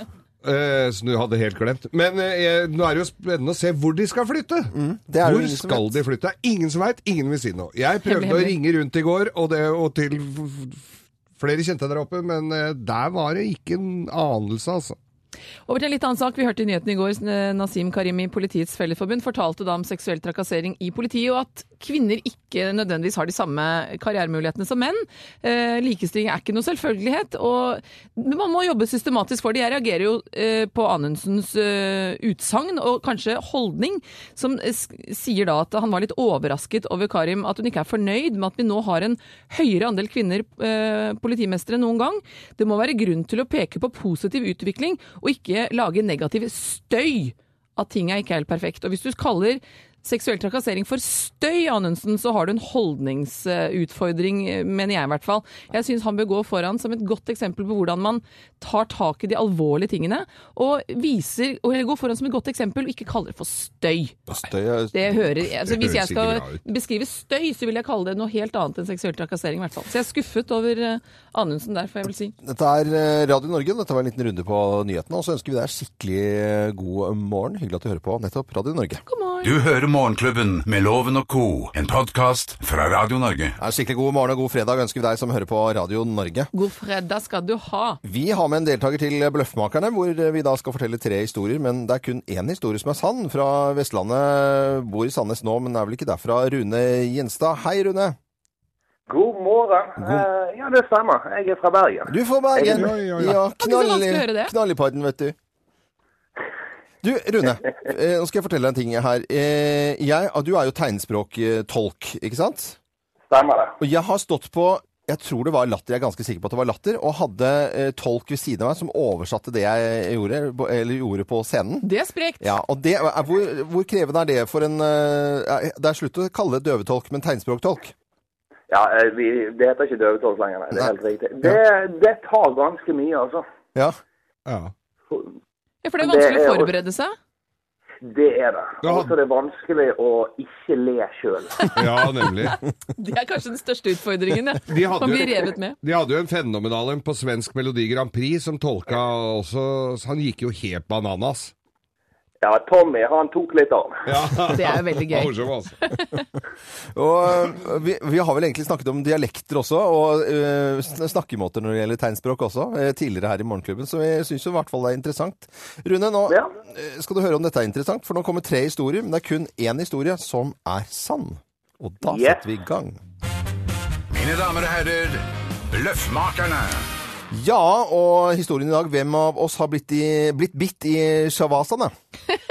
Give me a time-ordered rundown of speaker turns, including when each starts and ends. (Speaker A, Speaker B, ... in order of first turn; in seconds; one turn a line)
Speaker A: 0.4-10.8
Speaker B: 4.7-6.0
Speaker C: 8.1-8.6
Speaker A: 11.4-15.0
Speaker C: 15.7-64.2
Speaker B: 64.3-65.1
Speaker C: 64.9-72.3
Speaker A: 65.6-66.6
Speaker B: 72.4-79.0
Speaker C: 79.0-79.5
Speaker D: 79.4-83.5
Speaker B: 83.6-86.5
Speaker C: 86.5-88.0
Speaker B: 88.0-98.2
Speaker E: 99.1-102.9
Speaker B: 100.0-100.3
Speaker B: 102.1-105.3
Speaker A: 102.7-103.4
Speaker C: 103.6-104.5
Speaker B: 107.0-112.8
Speaker E: 113.3-113.8
Speaker B: 113.8-121.8
Speaker C: 121.8-122.5
Speaker B: 122.4-127.9
Speaker E: 128.7-133.4
Speaker A: 134.5-134.7
Speaker C: 135.8-137.1
Speaker E: 136.0-136.7
Speaker E: 138.0-142.0
Speaker A: 138.8-139.1
Speaker C: 141.6-141.9
Speaker A: 141.7-142.6
Speaker C: 142.4-145.8
Speaker A: 144.7-151.5
Speaker E: 152.4-154.2
Speaker A: 154.1-155.8
Speaker C: 154.5-156.2
Speaker B: 156.9-173.0
Speaker E: 172.1-172.4
Speaker D: 174.1-176.8
Speaker B: 177.3-181.9